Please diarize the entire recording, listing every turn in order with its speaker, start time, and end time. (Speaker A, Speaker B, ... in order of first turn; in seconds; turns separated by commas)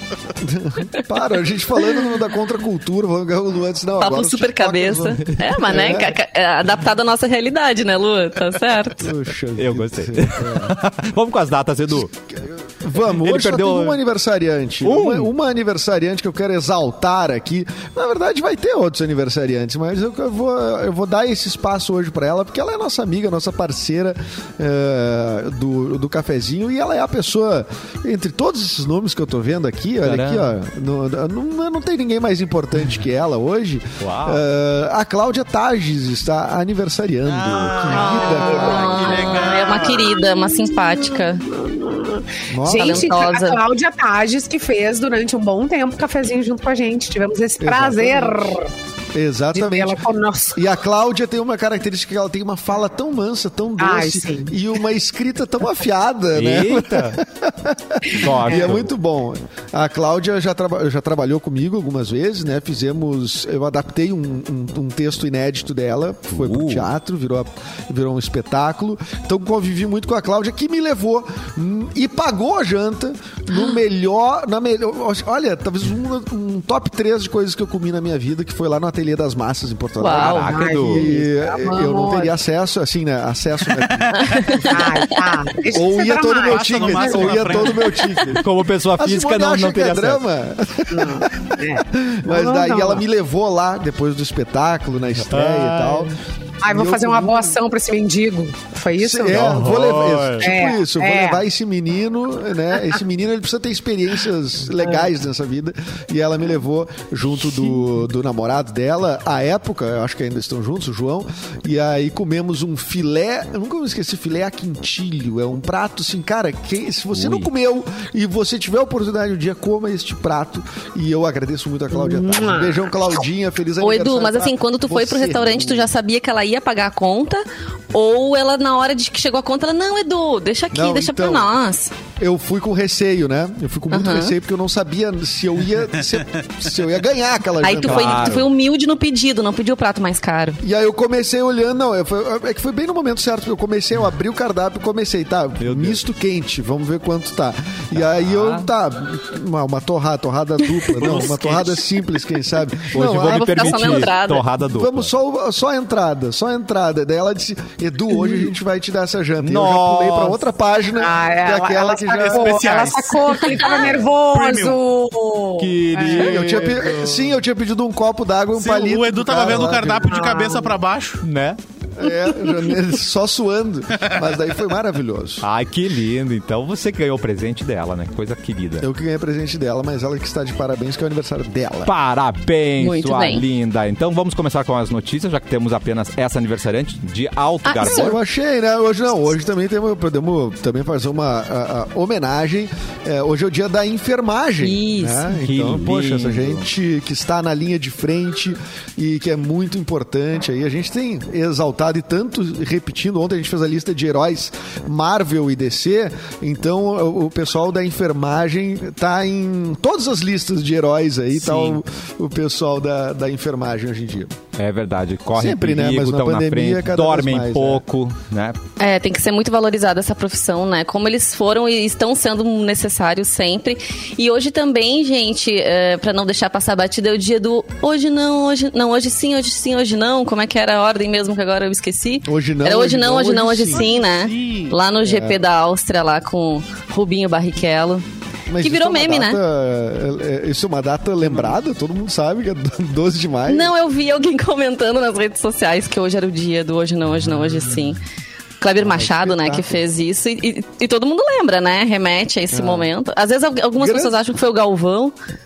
Speaker A: 0.4-6.2, Speaker B: 4.0-9.1, Speaker A: 9.0-10.8, Speaker C: 9.6-12.1, Speaker A: 11.9-39.2, Speaker C: 13.1-14.0, Speaker C: 14.8-15.3, Speaker C: 30.0-30.5, Speaker C: 34.0-34.4, Speaker D: 37.2-40.2, Speaker B: 37.9-41.5, Speaker E: 37.9-48.7, Speaker A: 42.5-43.2, Speaker B: 42.7-43.6, Speaker A: 47.6-48.6, Speaker A: 49.1-50.0, Speaker E: 49.5-50.6, Speaker A: 50.5-84.7, Speaker E: 53.8-54.5, Speaker C: 56.3-57.2, Speaker C: 58.1-58.9, Speaker E: 58.4-58.7, Speaker C: 66.3-66.9, Speaker B: 80.0-80.5, Speaker C: 80.2-81.1, Speaker E: 80.4-82.3, Speaker D: 83.7-84.3, Speaker B: 84.2-85.0, Speaker E: 84.6-87.8, Speaker A: 85.7-88.4, Speaker D: 86.3-88.4, Speaker C: 88.4-90.2, Speaker A: 89.0-96.1, Speaker E: 90.9-93.0, Speaker C: 95.3-96.1, Speaker E: 96.6-99.7, Speaker A: 96.7-97.6, Speaker A: 99.0-125.9, Speaker C: 99.3-100.5, Speaker E: 100.4-101.4, Speaker E: 104.8-105.0, Speaker C: 117.1-117.5, Speaker E: 121.9-122.8, Speaker B: 123.8-131.9, Speaker A: 130.7-131.5, Speaker A: 132.2-138.4, Speaker B: 133.9-134.3, Speaker B: 137.6-140.6, Speaker C: 137.8-138.5, Speaker A: 140.6-154.1, Speaker C: 145.6-146.0, Speaker C: 147.9-148.7, Speaker D: 150.9-151.8, Speaker C: 152.9-155.1, Speaker B: 153.1-154.4, Speaker A: 154.7-162.7, Speaker C: 159.4-160.4, Speaker E: 161.0-166.5, Speaker D: 162.1-164.8, Speaker C: 165.6-167.3, Speaker A: 166.0-170.2, Speaker D: 168.6-171.2, Speaker E: 170.1-170.8, Speaker C: 171.2-171.6, Speaker A: 171.9-175.4, Speaker E: 172.2-172.7, Speaker C: 175.4-178.8, Speaker A: 178.8-181.9, Speaker C: 181.8-188.2, Speaker B: 182.8-183.4, Speaker B: 187.6-188.1, Speaker A: 187.8-214.3, Speaker B: 194.6-195.3, Speaker C: 195.3-196.6, Speaker C: 211.3-211.8, Speaker C: 214.6-218.6, Speaker A: 215.3-217.8, Speaker B: 218.8-238.0, Speaker A: 232.2-233.9, Speaker D: 233.7-234.8, Speaker A: 235.0-235.4, Speaker A: 238.5-243.7, Speaker B: 238.6-239.4, Speaker B: 243.5-248.0, Speaker B: 248.6-255.1, Speaker A: 248.8-249.8, Speaker A: 252.5-252.9, Speaker A: 253.8-254.2